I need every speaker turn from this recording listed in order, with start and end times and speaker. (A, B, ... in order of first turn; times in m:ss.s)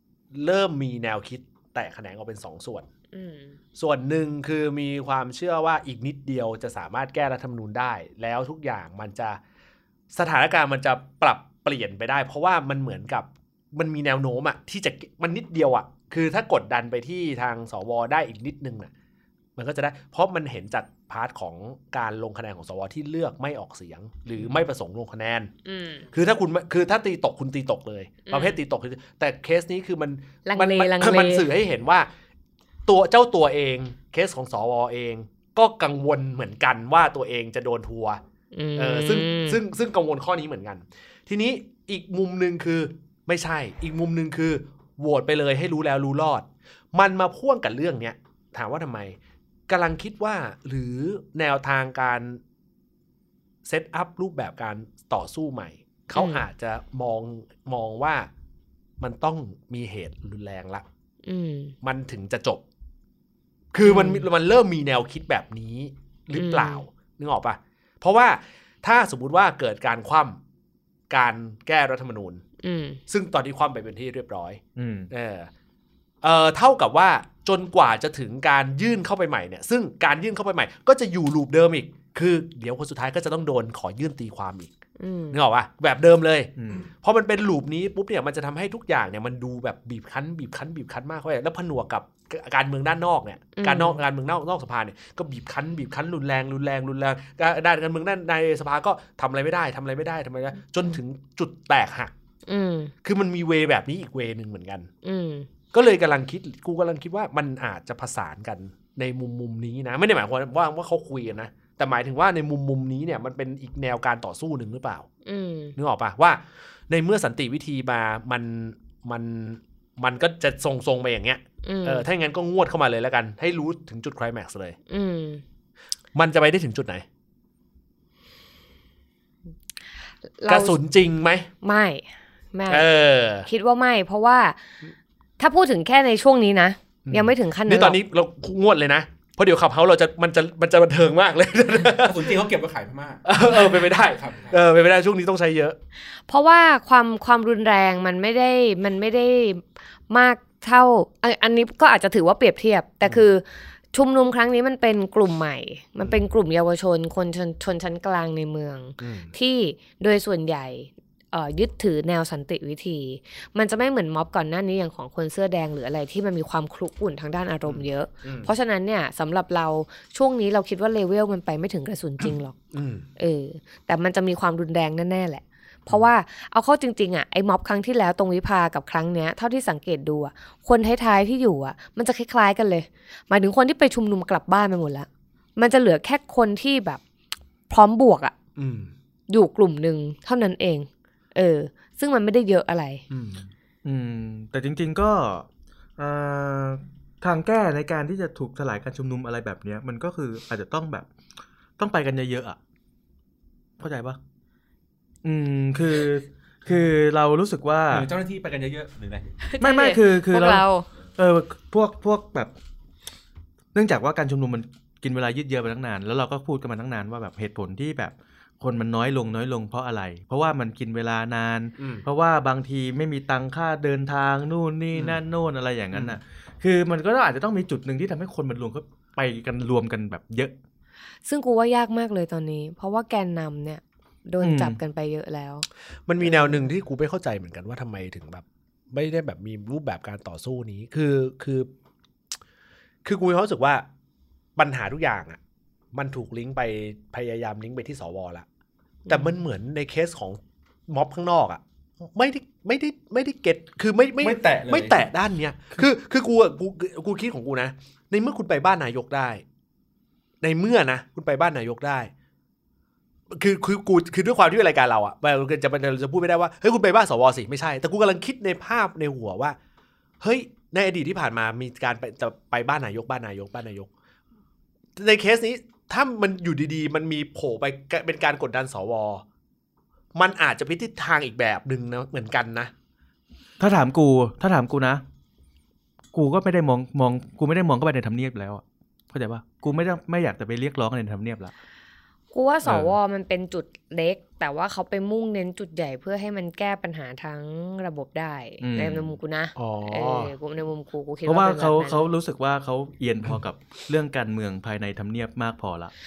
0:00.3-0:02.9 A
0:03.1-0:03.6 B
0:03.8-0:09.4 A
0:10.1-0:18.9 A
0:19.6-0:25.5 A
0:25.6-0:26.1 B
0:26.1-0:32.1 A
0:28.3-0:28.6 B
0:30.4-0:31.5 B
0:32.9-0:38.2 A
0:38.5-0:39.6 B
0:38.8-0:49.2 A
0:49.7-0:52.4 A
0:53.6-0:58.3 A
0:56.1-0:56.4 B
0:59.0-1:00.8 A
1:01.3-1:01.7 B
1:01.8-1:02.6 A
1:03.7-1:10.4 A
1:03.8-1:04.3 B
1:06.3-1:06.8 B
1:11.1-1:12.4 A
1:12.6-1:13.0 B
1:13.1-1:15.5 A
1:14.8-1:15.1 C
1:16.2-1:24.7 A
1:25.0-1:25.4 B
1:25.3-1:42.1 A
1:26.6-1:26.8 C
1:33.6-1:34.0 B
1:42.5-1:42.9 B
1:43.0-1:44.9 A
1:45.0-1:45.5 B
1:45.7-1:55.1 A
1:55.3-1:55.8 B
1:55.8-2:04.8 A
2:01.6-2:02.0 B
2:04.9-2:05.4 B
2:06.1-2:07.0 A
2:10.4-2:10.8 B
2:10.5-2:11.5 A
2:11.6-2:12.9 B
2:12.7-2:13.5 A
2:13.4-2:14.6 B
2:15.4-2:18.0 B
2:17.0-2:22.4 A
2:22.0-2:23.3 D
2:23.2-2:25.8 A
2:24.1-2:24.6 D
2:26.3-2:52.6 B
2:39.0-2:39.3 A
2:47.6-2:48.5 A
2:52.2-2:53.0 A
2:53.2-3:07.0 B
3:07.7-3:08.3 B
3:08.6-3:08.9 A
3:09.3-3:13.0 B
3:13.1-3:13.5 A
3:13.8-3:15.5 C
3:16.0-3:21.1 C
3:21.8-3:22.6 C
3:23.8-3:24.2 C
3:25.2-3:28.1 C
3:27.9-3:29.3 D
3:29.4-3:30.9 B
3:29.6-3:30.6 C
3:31.2-3:32.5 C
3:33.7-3:50.5 C
3:41.8-3:42.0 A
3:51.2-3:55.6 B
3:54.4-3:54.8 C
3:56.1-4:01.7 A
3:56.2-3:56.6 B
4:03.0-4:03.8 A
4:04.6-4:05.4 A
4:05.9-4:08.4 A
4:09.1-4:09.3 B
4:09.1-4:11.6 A
4:12.1-4:19.4 A
4:14.2-4:15.0 D
4:20.4-4:22.1 A
4:23.3-4:29.6 A
4:30.2-4:33.9 A
4:35.0-4:39.2 A
4:40.1-4:42.7 A
4:43.6-4:45.0 C
4:46.1-4:51.5 C
4:52.3-5:02.0 B
4:58.6-4:59.2 C
4:59.6-5:00.3 A
5:01.2-5:05.9 C